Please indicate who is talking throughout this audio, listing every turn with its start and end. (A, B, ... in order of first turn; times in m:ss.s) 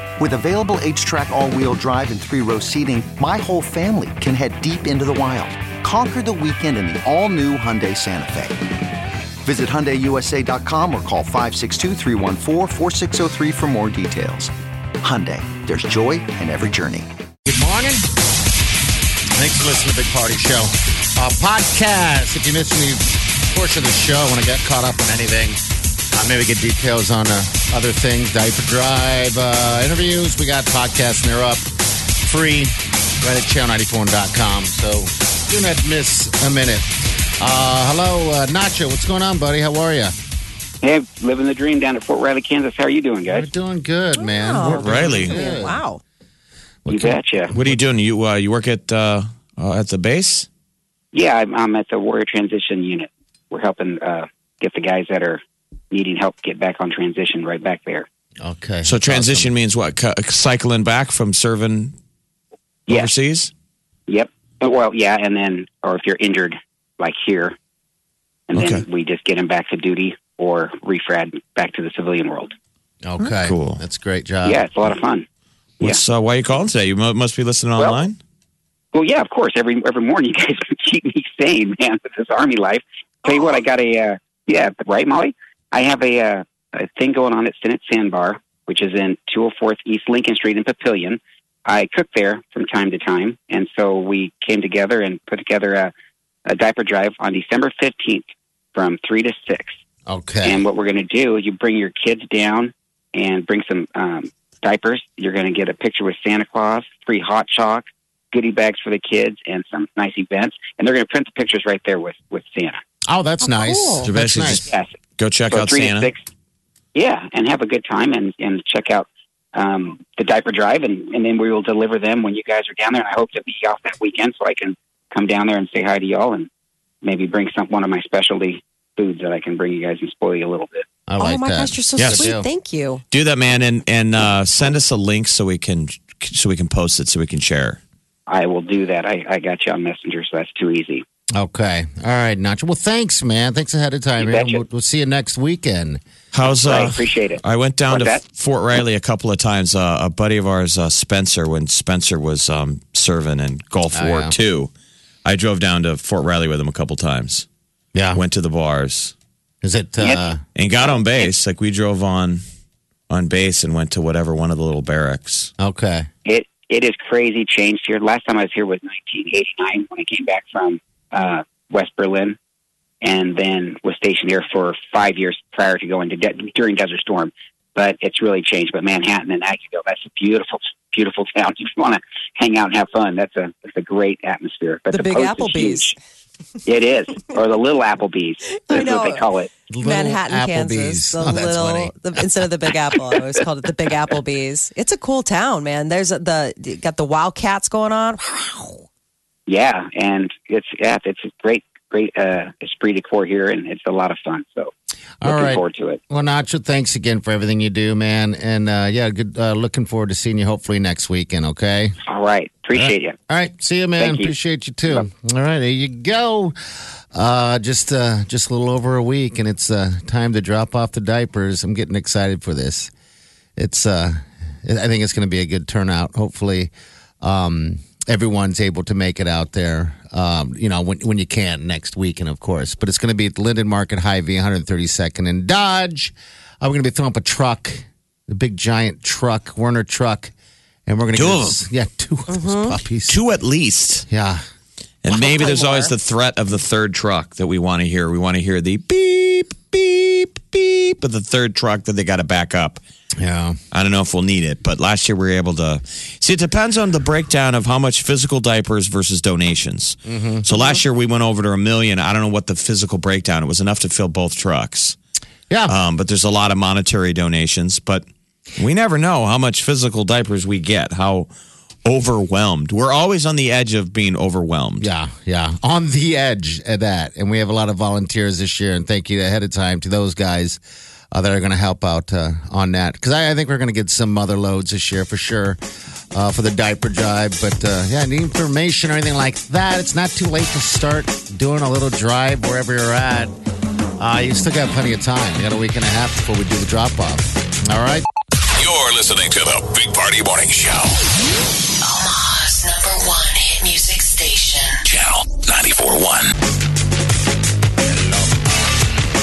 0:00.2-0:08.6 A
0:09.4-0:17.1 A
0:17.5-0:18.1 B
0:19.4-0:25.6 B
0:26.1-0:31.6 B
0:32.2-0:36.9 B
0:37.4-0:40.1 B
0:40.8-0:43.5 C
0:43.2-0:45.8 B
0:44.2-0:46.0 D
0:44.7-0:45.4 E
0:46.8-0:47.8 B
0:46.9-0:47.5 C
0:47.5-0:50.5 E
0:51.1-0:58.1 C
0:58.4-0:59.5 B
0:58.8-1:02.0 E
1:02.9-1:03.1 C
1:02.9-1:03.5 E
1:04.1-1:07.6 C
1:08.5-1:12.5 C
1:08.6-1:08.8 E
1:13.0-1:14.6 B
1:13.2-1:13.8 E
1:14.4-1:15.3 C
1:15.8-1:18.2 E
1:17.8-1:18.0 C
1:18.9-1:35.9 C
1:23.3-1:23.6 D
1:36.5-1:39.7 C
1:40.1-1:40.6 B
1:40.4-1:52.8 C
1:53.1-1:54.6 B
1:53.4-1:54.1 D
1:54.0-1:54.7 E
1:54.6-1:54.9 C
1:55.2-1:56.1 E
1:55.5-1:56.2 C
1:57.0-2:06.5 C
2:07.0-2:10.8 C
2:11.1-2:12.5 B
2:11.2-2:13.0 D
2:12.0-2:12.3 E
2:13.1-2:17.8 E
2:18.3-2:21.0 C
2:21.4-2:26.0 B
2:24.2-2:24.6 C
2:26.3-2:34.7 E
2:26.6-2:28.2 C
2:33.9-2:34.4 B
2:35.2-2:37.5 E
2:37.9-2:38.2 B
2:38.1-2:39.2 E
2:39.6-2:40.4 B
2:40.0-2:40.2 C
2:40.6-2:42.4 E
2:40.8-2:41.3 C
2:43.1-2:45.5 E
2:45.6-2:46.1 B
2:46.2-2:52.4 C
2:53.0-3:06.0 C
3:04.9-3:05.9 D
3:06.6-3:09.5 C
3:08.7-3:18.8 D
3:09.7-3:12.3 B
3:19.5-3:24.7 C
3:25.2-3:32.0 B
3:25.2-3:26.0 C
3:32.1-3:33.2 C
3:32.7-3:36.6 B
3:34.0-3:34.3 C
3:37.1-3:42.9 B
3:43.6-4:00.3 B
4:00.9-4:03.2 B
4:01.1-4:01.6 E
4:02.3-4:02.8 D
4:03.1-4:04.1 E
4:04.1-4:04.4 B
4:05.0-4:12.8 E
4:05.1-4:05.9 D
4:13.2-4:13.6 B
4:13.7-4:25.0 E
4:20.1-4:20.6 B
4:25.5-4:25.8 B
4:25.7-4:28.0 E
4:28.6-4:31.3 E
4:31.8-4:34.9 E
4:34.8-4:40.6 B
4:41.1-4:45.6 B
4:46.1-4:53.3 B
4:54.0-4:58.0 B
4:58.6-5:00.9 F
5:01.8-5:04.8 G
5:04.8-5:06.3 F
5:07.8-5:08.3 B